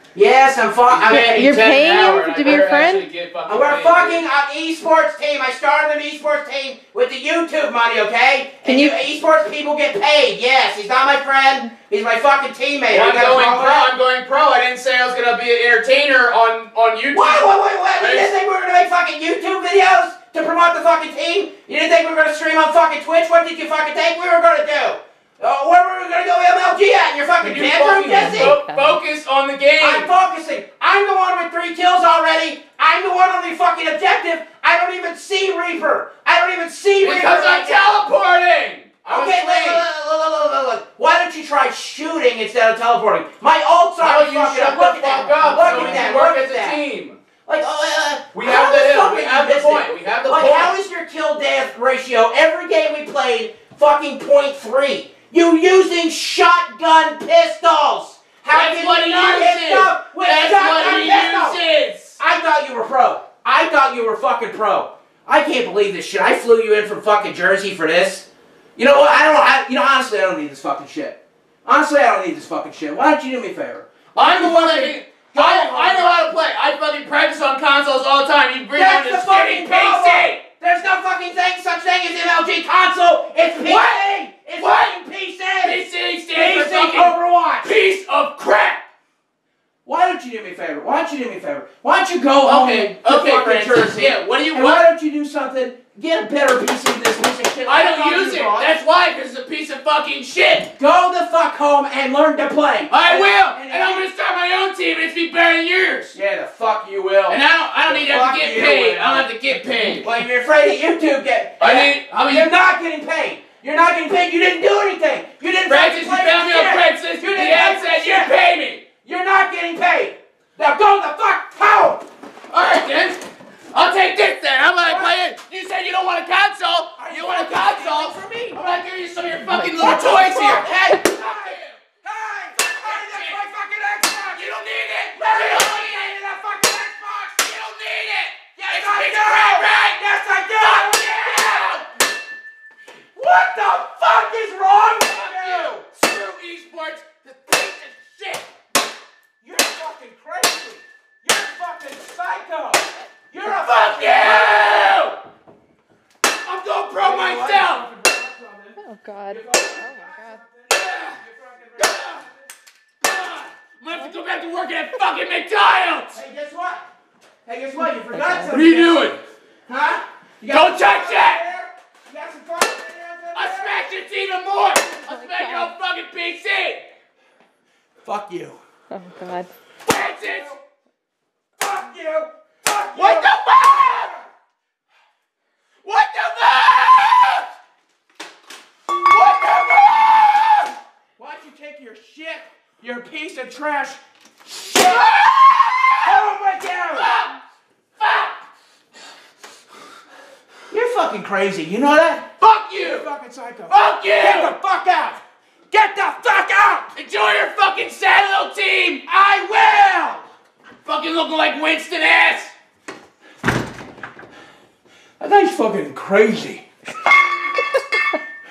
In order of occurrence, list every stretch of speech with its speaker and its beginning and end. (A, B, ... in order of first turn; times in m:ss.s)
0:00.1-0:01.6 A
0:00.9-0:04.3 B
0:01.0-0:03.0 C
0:03.4-0:13.9 A
0:08.6-0:09.0 C
0:12.9-0:18.3 B
0:17.1-0:28.6 A
0:27.4-0:30.1 B
0:28.0-0:29.0 C
0:29.8-0:37.8 A
0:37.0-0:39.8 B
0:39.1-0:46.8 A
0:44.0-0:47.2 B
0:47.4-1:01.6 A
0:48.3-0:50.8 B
0:58.5-1:02.2 B
1:02.2-1:16.1 A
1:14.1-1:20.4 B
1:18.7-1:25.8 A
1:23.5-1:24.0 B
1:24.6-1:28.8 B
1:26.3-1:27.7 A
1:29.8-1:38.7 A
1:32.4-1:34.8 B
1:37.6-1:40.7 B
1:40.8-1:44.1 A
1:42.9-1:46.2 B
1:46.1-1:58.3 A
1:47.3-1:50.2 B
1:51.6-1:52.5 B
1:55.6-1:58.9 B
1:59.0-2:02.0 A
2:02.5-2:11.8 B
2:04.8-2:05.1 A
2:07.0-2:08.8 A
2:09.5-2:10.7 C
2:09.8-2:14.6 A
2:12.5-2:13.4 B
2:14.3-2:16.1 B
2:15.1-2:17.2 A
2:17.0-2:21.9 B
2:18.6-2:21.8 A
2:23.2-2:25.8 A
2:25.0-2:28.5 B
2:29.4-2:35.1 A
2:33.4-2:35.2 B
2:36.4-2:37.8 B
2:37.0-2:38.8 A
2:38.8-2:40.4 C
2:39.3-2:42.3 A
2:40.7-2:41.2 B
2:41.8-2:42.2 B
2:43.0-2:46.2 B
2:46.1-2:46.9 A
2:47.4-2:49.2 A
2:47.8-2:48.6 C
2:48.5-2:49.2 B
2:49.7-2:53.8 A
2:50.5-2:51.4 B
2:53.3-2:56.9 B
2:54.9-2:55.7 C
2:58.0-2:58.6 A
2:58.9-2:59.5 C
2:59.8-3:00.5 B
3:00.0-3:00.6 A
3:01.6-3:04.3 A
3:02.9-3:04.1 B
3:05.8-3:07.5 B
3:09.0-3:10.7 B
3:11.2-3:14.0 A
3:14.6-3:15.0 A
3:14.6-3:16.3 B
3:16.0-3:17.1 A
3:16.9-3:17.4 B
3:18.0-3:18.4 B
3:20.7-3:22.3 A
3:22.4-3:23.1 B
3:22.8-3:26.9 A
3:23.7-3:24.5 B
3:26.9-3:29.1 B
3:29.1-3:30.3 A
3:30.8-3:32.5 B
3:35.2-3:36.6 A